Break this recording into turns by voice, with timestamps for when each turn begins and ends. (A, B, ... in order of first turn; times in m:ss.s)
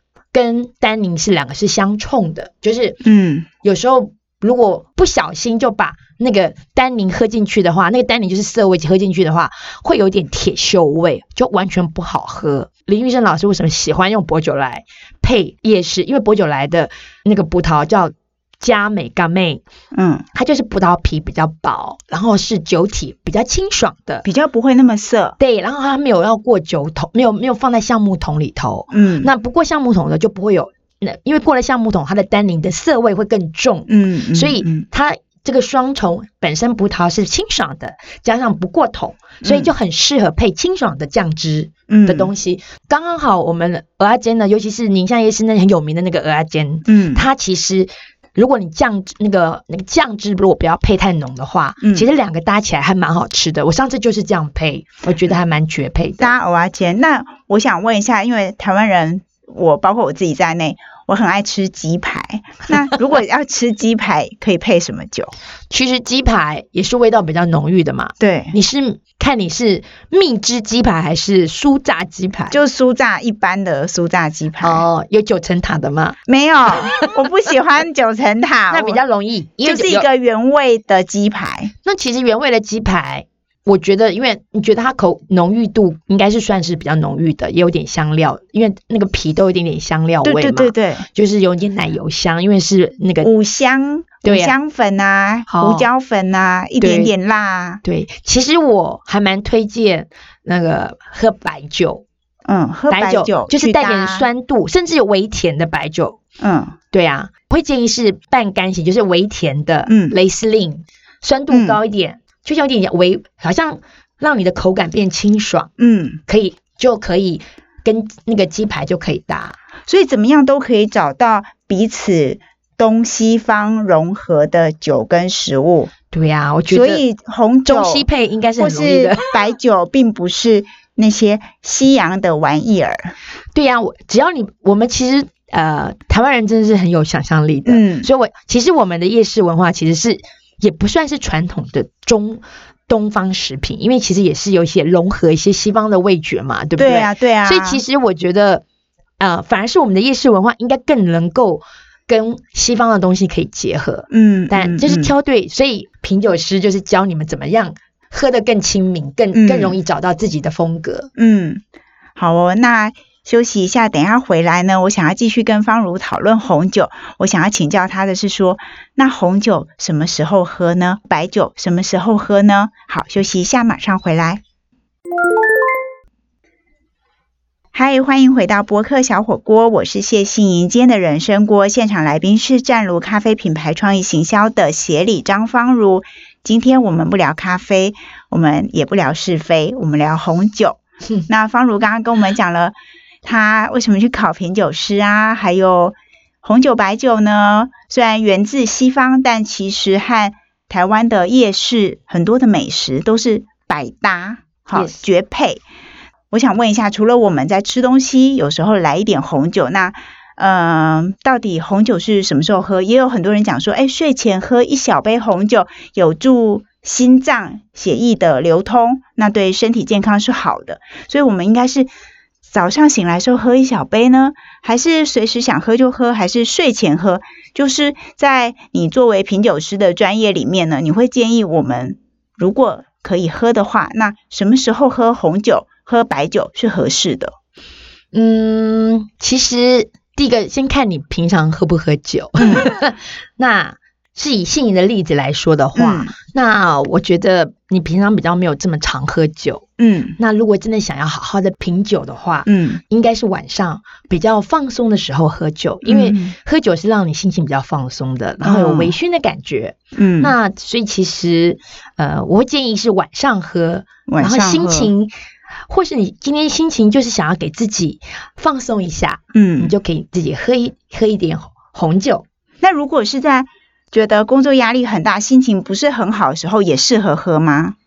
0:00.3-0:03.0 A
0:03.0-0:03.5 B
0:03.6-0:19.6 A
0:19.9-0:20.2 B
0:20.3-0:24.2 A
0:24.2-0:25.4 B
0:25.4-0:56.3 A
0:28.9-0:29.3 B
0:33.9-0:34.8 B
0:39.4-0:39.7 B
0:41.9-0:42.3 B
0:46.8-0:47.2 B
0:51.8-0:52.1 B
0:56.2-1:05.3 B
1:05.7-1:12.6 A
1:08.2-1:08.5 B
1:12.5-1:14.8 B
1:14.6-1:16.2 A
1:16.3-1:19.0 B
1:16.7-1:17.1 A
1:18.7-1:20.1 A
1:19.6-1:21.7 B
1:21.8-1:33.3 A
1:30.2-1:31.0 B
1:33.2-1:37.8 B
1:34.2-1:34.5 A
1:35.5-1:35.9 A
1:36.8-1:37.1 A
1:37.8-1:42.0 A
1:42.5-1:44.3 B
1:42.9-1:46.2 A
1:46.4-1:46.8 B
1:46.9-1:55.7 A
1:49.9-1:50.1 B
1:51.5-1:51.8 B
1:55.8-1:56.2 B
1:56.3-1:59.6 A
1:59.9-2:05.9 B
2:06.1-2:07.0 A
2:06.7-2:08.0 B
2:07.7-2:09.5 A
2:08.6-2:13.1 B
2:13.5-2:28.6 A
2:17.7-2:18.1 B
2:26.8-2:27.8 B
2:29.2-2:41.1 A
2:34.1-2:35.1 B
2:39.3-2:39.8 B
2:41.2-2:41.6 B
2:42.2-2:54.4 B
2:57.7-3:25.6 B
3:24.7-3:25.0 A
3:26.3-3:41.9 B
3:42.4-3:57.3 B
3:58.1-4:09.6 A
4:02.4-4:02.7 B
4:05.8-4:06.1 B
4:09.8-4:10.2 B
4:10.2-4:25.1 A
4:12.4-4:12.8 B
4:15.8-4:16.3 B
4:18.4-4:18.9 B
4:20.0-4:20.3 B
4:24.1-4:24.9 B
4:25.7-4:32.2 A
4:29.3-4:29.7 B
4:32.6-4:37.8 B